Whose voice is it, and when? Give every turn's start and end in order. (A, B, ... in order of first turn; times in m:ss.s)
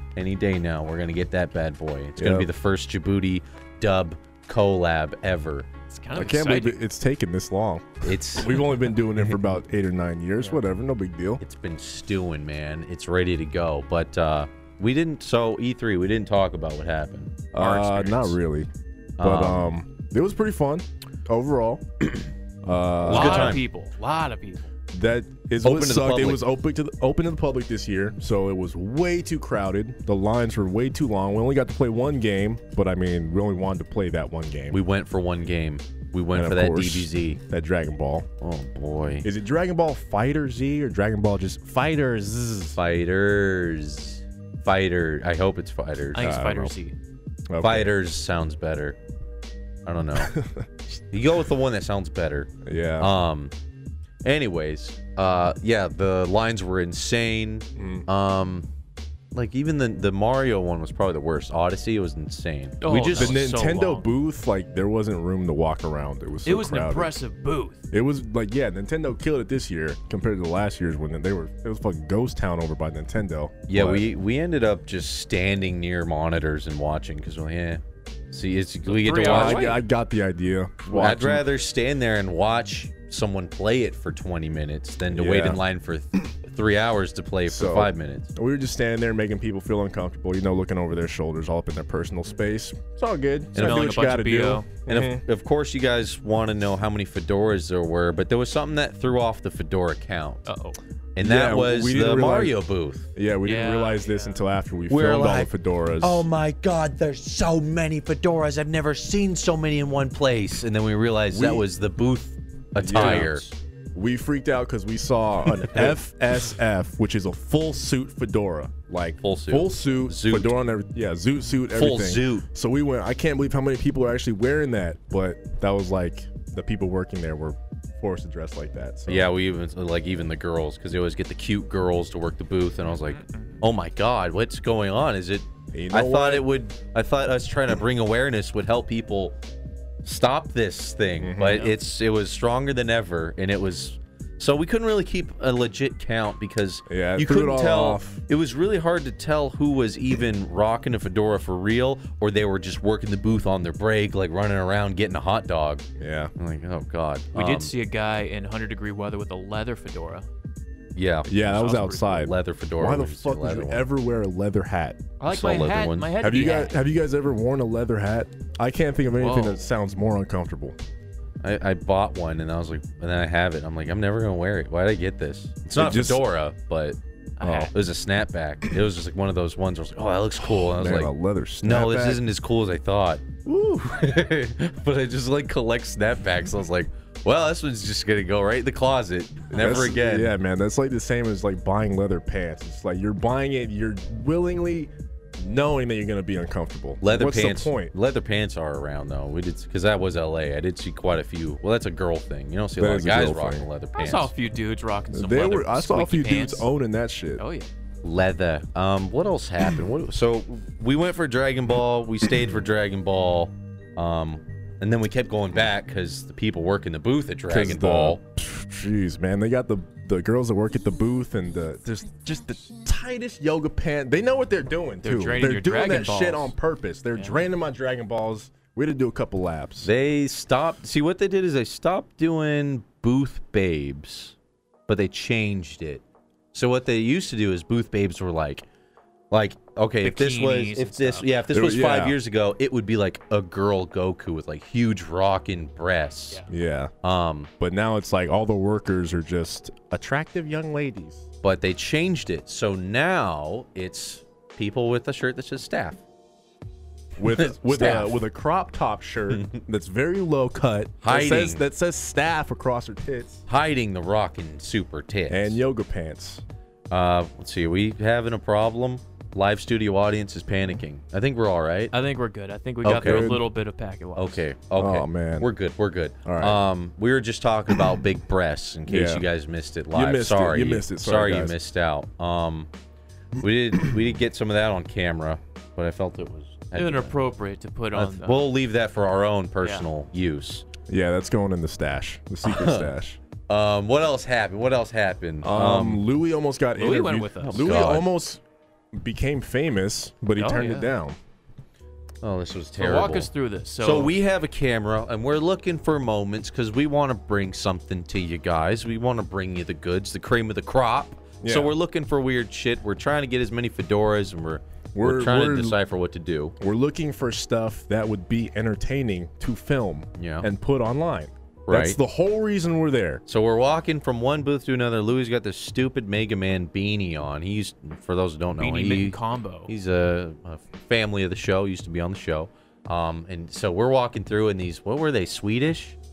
0:00.2-0:05.7 A
0:02.2-0:02.5 B
0:05.9-0:06.8 C
0:06.1-0:11.4 B
0:08.0-0:08.7 A
0:11.4-0:18.4 A
0:17.5-0:18.7 B
0:19.2-0:19.7 A
0:19.2-0:22.1 B
0:22.6-0:23.6 B
0:23.0-0:23.6 A
0:23.0-0:24.6 C
0:24.9-0:34.8 B
0:25.6-0:26.4 A
0:34.7-0:37.4 A
0:36.3-0:38.3 B
0:38.4-0:39.3 A
0:39.2-0:42.8 B
0:42.8-0:46.5 A
0:46.1-0:47.0 C
0:46.2-0:46.7 B
0:47.5-0:48.0 B
0:47.6-0:49.0 A
0:49.8-0:50.4 A
0:50.2-0:50.7 B
0:50.9-0:53.5 A
0:52.6-0:53.1 B
0:54.2-0:58.7 A
0:57.8-0:58.0 B
0:59.3-1:03.4 A
1:02.8-1:04.0 C
1:03.1-1:07.1 B
1:06.4-1:07.8 C
1:07.9-1:14.1 B
1:13.7-1:19.8 A
1:18.8-1:19.8 C
1:19.2-1:21.5 B
1:20.8-1:28.3 A
1:25.1-1:25.6 B
1:27.4-1:35.2 B
1:33.5-1:33.9 A
1:33.5-1:34.7 C
1:34.9-1:40.5 A
1:40.4-1:40.8 C
1:41.2-1:43.1 A
1:41.2-1:42.6 B
1:43.1-1:46.3 B
1:43.4-1:44.4 C
1:44.9-1:53.5 A
1:51.3-1:51.7 B
1:52.8-1:53.4 B
1:53.9-2:09.3 B
1:59.2-2:00.5 A
2:01.7-2:02.4 A
2:09.1-2:19.3 A
2:12.8-2:13.6 C
2:15.7-2:16.5 B
2:20.0-2:35.8 A
2:21.2-2:21.7 B
2:21.5-2:21.7 C
2:26.9-2:28.2 B
2:36.0-2:36.3 B
2:36.4-2:37.7 A
2:37.3-2:40.3 C
2:41.0-2:43.9 A
2:41.3-2:45.0 B
2:41.5-2:42.3 C
2:45.2-2:46.7 C
2:45.2-2:46.2 A
2:46.2-2:50.8 B
2:49.2-2:49.6 C
2:51.4-2:57.0 A
2:55.7-2:56.3 B
2:57.4-2:57.7 C
2:57.4-2:57.7 B
2:57.7-3:10.3 A
3:00.6-3:02.2 B
3:09.5-3:17.9 B
3:17.0-3:24.3 A
3:22.8-3:23.7 B
3:24.0-3:26.7 C
3:25.1-3:27.4 B
3:27.4-3:27.7 C
3:28.0-3:38.2 A
3:37.5-3:49.9 B
3:45.0-3:46.5 C
3:47.1-3:47.5 C
3:49.8-3:54.4 A
3:54.9-3:56.0 A
3:56.5-3:58.6 A
3:59.3-4:06.4 A
4:00.0-4:01.3 C
4:01.5-4:02.2 B
4:06.5-4:06.9 B
4:07.0-4:07.5 A
4:07.6-4:11.2 B
4:11.4-4:16.0 A
4:17.2-4:23.4 B
4:17.3-4:18.2 A
4:19.3-4:19.6 A
4:21.0-4:21.6 A
4:23.5-4:25.6 A
4:25.3-4:26.4 B
4:26.9-4:31.9 A
4:31.9-4:34.4 C
4:32.8-4:33.3 A
4:32.8-4:33.4 B
4:34.1-4:42.7 A
4:34.8-4:35.5 B
4:36.2-4:36.6 B
4:38.9-4:39.3 B
4:39.9-4:41.6 B
4:43.4-4:47.2 A
4:46.7-4:48.5 C
4:47.9-4:50.7 A
4:50.9-4:53.2 B
4:52.4-4:52.9 A
4:53.5-4:56.0 A
4:55.4-4:58.4 B
4:56.8-4:57.8 C
4:57.4-4:58.1 A
4:58.9-5:01.2 B
5:00.4-5:00.9 C
5:02.2-5:16.5 A
5:02.8-5:04.1 C
5:11.4-5:11.7 B
5:14.9-5:15.8 B
5:16.6-5:23.2 B
5:20.2-5:20.5 A
5:21.7-5:22.0 A
5:23.3-5:36.0 A
5:28.6-5:29.7 C